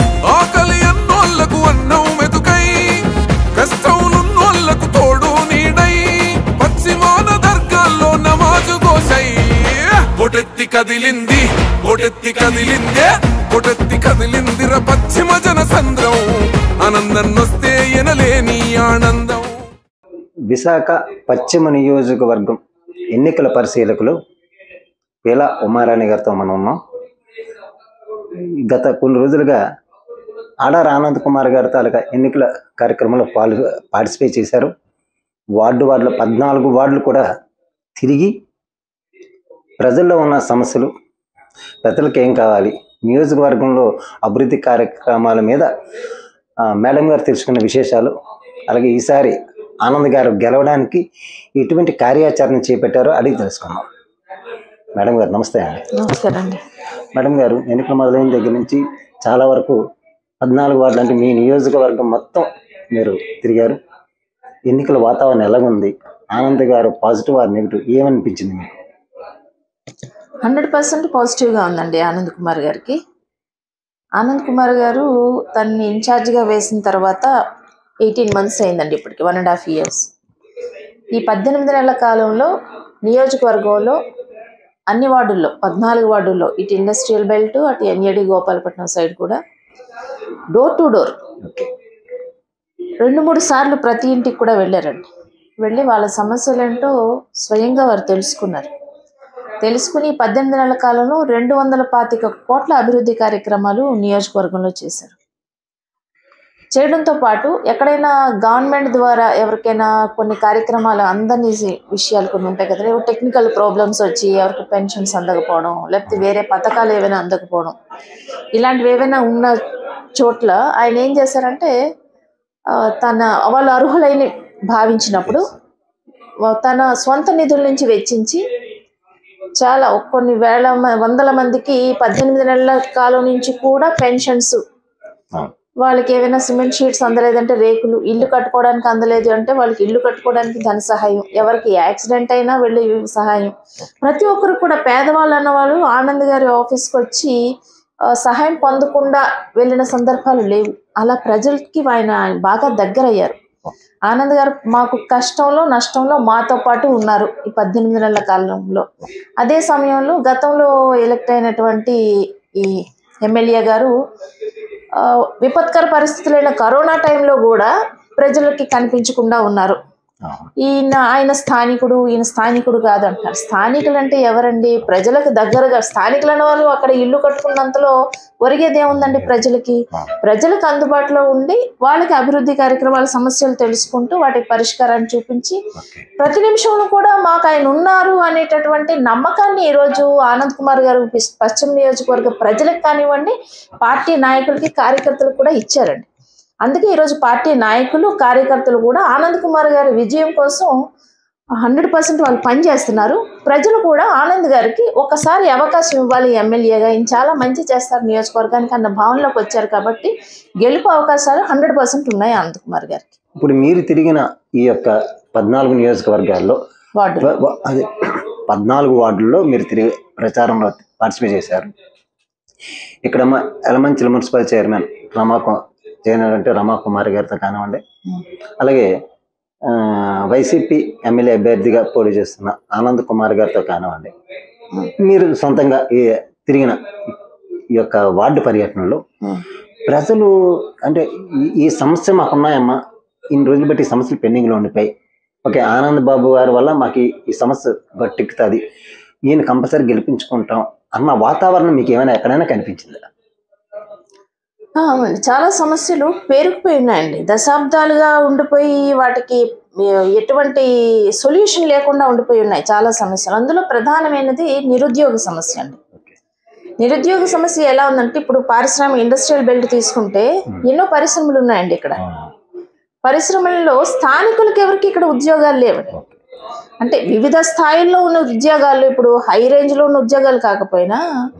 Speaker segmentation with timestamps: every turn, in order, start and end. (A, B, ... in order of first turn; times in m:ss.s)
0:00.2-0:19.7 A
0:20.5-0:22.6 B
0:23.1-0:24.2 B
0:25.2-0:26.8 B
0:28.4-0:29.6 B
0:30.6-0:34.7 B
0:35.6-0:37.2 B
0:38.0-0:38.4 B
0:39.8-0:40.9 B
0:41.8-0:45.7 B
0:46.6-0:48.1 B
0:48.7-0:51.0 B
0:51.6-0:53.9 B
0:55.0-0:55.8 B
0:55.9-0:56.6 C
0:57.1-0:59.8 B
1:00.4-1:03.8 B
1:04.6-1:08.8 B
1:10.4-1:13.0 C
1:14.2-1:17.3 C
1:18.0-1:20.0 C
1:21.1-1:22.5 C
1:23.0-1:24.0 C
1:24.9-1:29.4 C
1:30.5-1:31.2 C
1:31.4-1:31.7 B
1:33.0-1:35.1 C
1:35.6-1:38.7 C
1:39.6-1:45.2 C
1:46.7-1:57.7 C
1:58.6-1:59.6 C
2:00.2-2:01.7 C
2:02.7-2:05.5 C
2:05.2-2:05.6 B
2:06.5-2:08.4 C
2:09.6-2:14.6 C
2:15.8-2:27.4 C
2:28.1-2:33.4 C
2:34.1-2:38.8 C
2:39.4-2:42.0 C
2:42.6-2:43.9 C
2:45.0-2:49.8 C
2:50.2-2:50.5 B
2:50.6-3:05.6 C
2:58.9-3:00.1 B
3:05.8-3:06.1 B
3:06.2-3:16.1 C
3:16.6-3:20.7 C
3:21.6-3:33.1 C
3:33.4-3:36.6 B
3:37.0-3:37.4 C
3:37.2-3:41.7 B
3:43.0-3:47.8 B
3:48.6-3:48.9 B
3:49.6-3:54.1 B
3:55.0-3:57.2 B
3:57.7-3:59.0 B
3:59.8-4:02.8 B
4:03.3-4:04.9 B
4:05.4-4:08.6 B
4:09.3-4:13.0 B
4:14.8-4:25.8 C
4:26.8-4:32.0 C
4:32.0-4:32.3 B
4:33.0-4:35.9 C
4:36.8-4:41.0 C